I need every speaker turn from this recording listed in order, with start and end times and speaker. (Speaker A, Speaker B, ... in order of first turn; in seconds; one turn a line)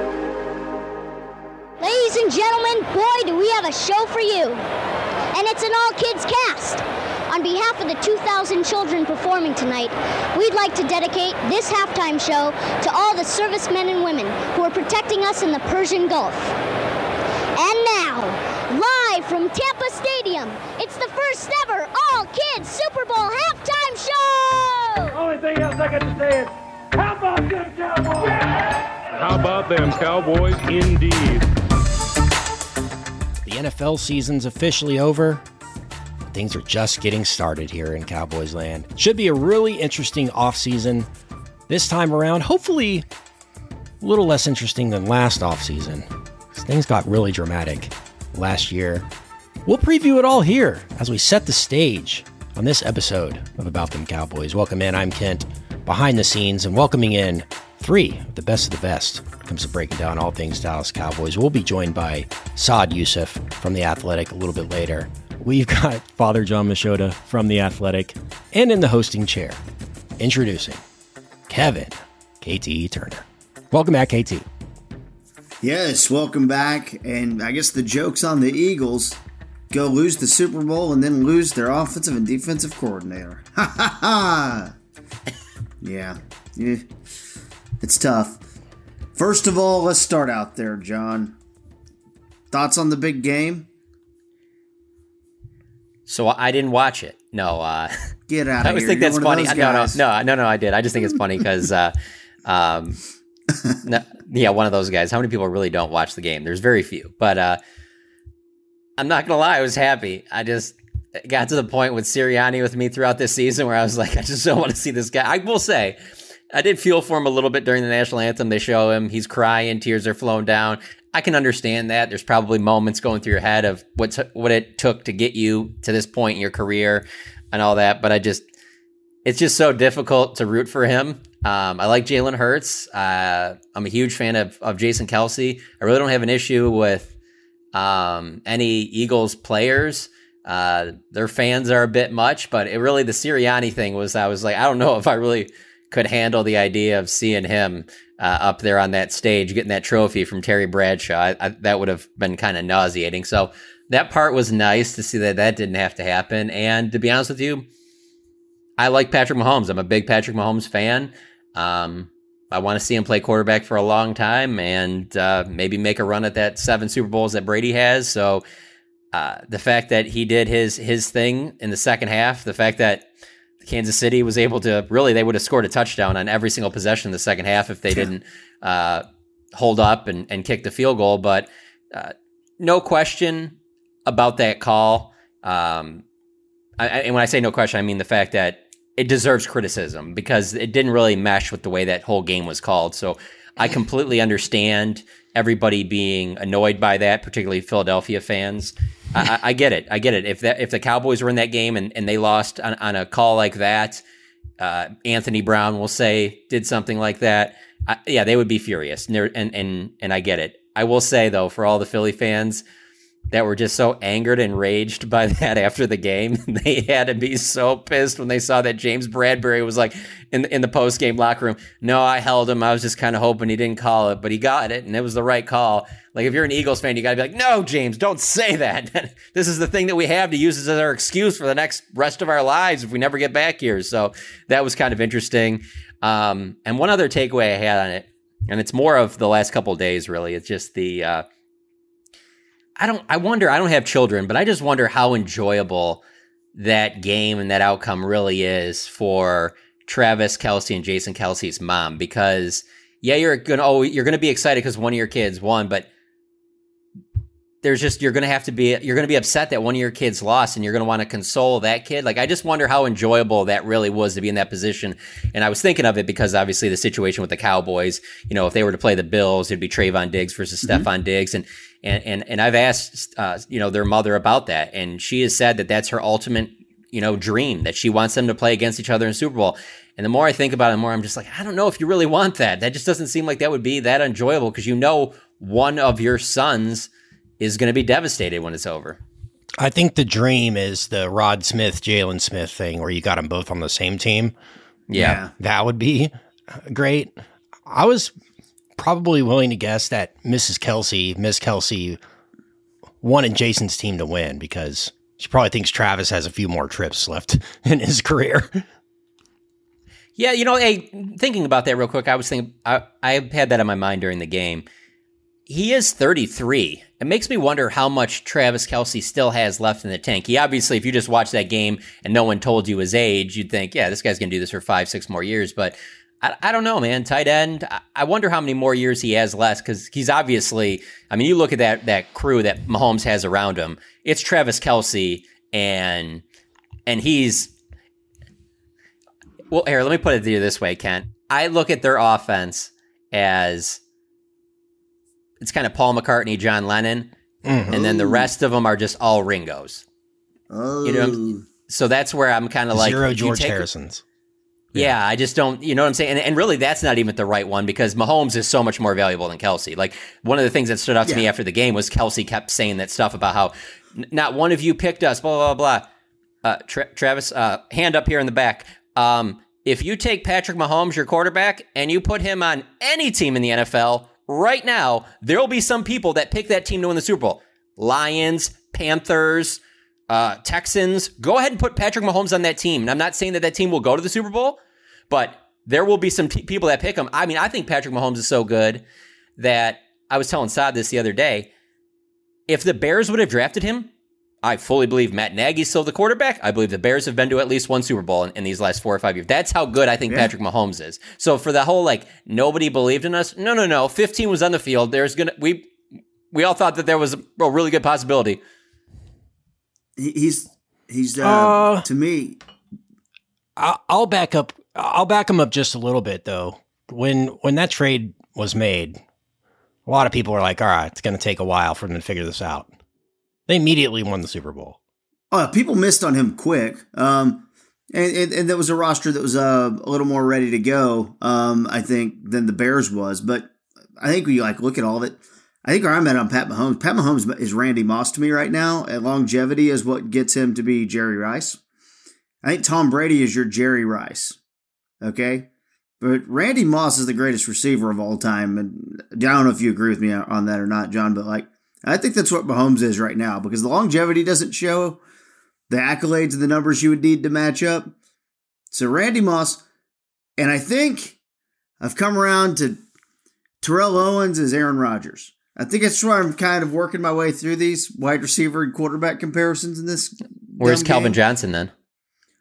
Speaker A: 1.8-4.6
Speaker A: 5.3-16.5
Speaker A: 17.6-25.1
Speaker B: 25.1-28.6
Speaker C: 29.2-31.4
Speaker D: 33.5-35.4
Speaker D: 36.3-41.1
Speaker D: 41.7-43.0
Speaker D: 44.0-49.0
Speaker D: 49.6-69.6
Speaker D: 70.2-70.8
Speaker D: 71.5-74.5
Speaker E: 75.6-79.2
Speaker E: 79.7-84.7
Speaker E: 85.8-86.9
Speaker E: 87.8-88.4
Speaker E: 89.1-91.3
Speaker E: 92.5-93.7
Speaker F: 96.1-97.9
Speaker E: 98.3-100.0
Speaker F: 98.6-101.9
Speaker F: 102.4-103.0
Speaker F: 103.8-107.6
Speaker F: 109.0-116.0
Speaker F: 116.5-128.4
Speaker F: 129.2-137.1
Speaker F: 137.7-157.7
Speaker F: 158.8-168.4
Speaker F: 169.1-173.0
Speaker F: 173.6-186.0
Speaker F: 186.8-204.0
Speaker F: 204.6-212.6
Speaker F: 213.3-241.2
Speaker F: 242.8-246.0
Speaker F: 246.5-255.9
Speaker F: 257.6-289.0
Speaker E: 270.6-270.9
Speaker D: 289.6-294.3
Speaker F: 294.9-295.2
Speaker E: 294.9-295.3
Speaker D: 295.0-297.1
Speaker D: 297.7-298.1
Speaker D: 298.8-302.0
Speaker D: 303.0-308.6
Speaker F: 310.2-314.6
Speaker F: 315.5-336.2
Speaker F: 336.9-337.5
Speaker F: 339.5-343.8
Speaker F: 345.4-347.1
Speaker D: 347.4-347.7
Speaker F: 347.7-349.8
Speaker E: 347.7-348.3
Speaker E: 350.5-351.4
Speaker F: 350.8-353.6
Speaker D: 352.7-354.0
Speaker F: 354.7-365.9
Speaker F: 366.4-384.6
Speaker F: 385.1-388.8
Speaker F: 389.4-391.5
Speaker F: 392.5-393.9
Speaker F: 394.4-405.7
Speaker F: 406.3-408.4
Speaker E: 410.0-412.4
Speaker D: 411.2-411.9
Speaker D: 413.6-419.0
Speaker D: 419.9-422.7
Speaker D: 423.5-424.8
Speaker E: 425.3-441.6
Speaker E: 442.4-444.4
Speaker E: 445.0-445.5
Speaker E: 446.0-455.0
Speaker E: 455.7-457.9
Speaker E: 458.7-459.6
Speaker E: 460.4-461.2
Speaker E: 461.8-462.8
Speaker E: 463.6-471.2
Speaker F: 470.6-471.7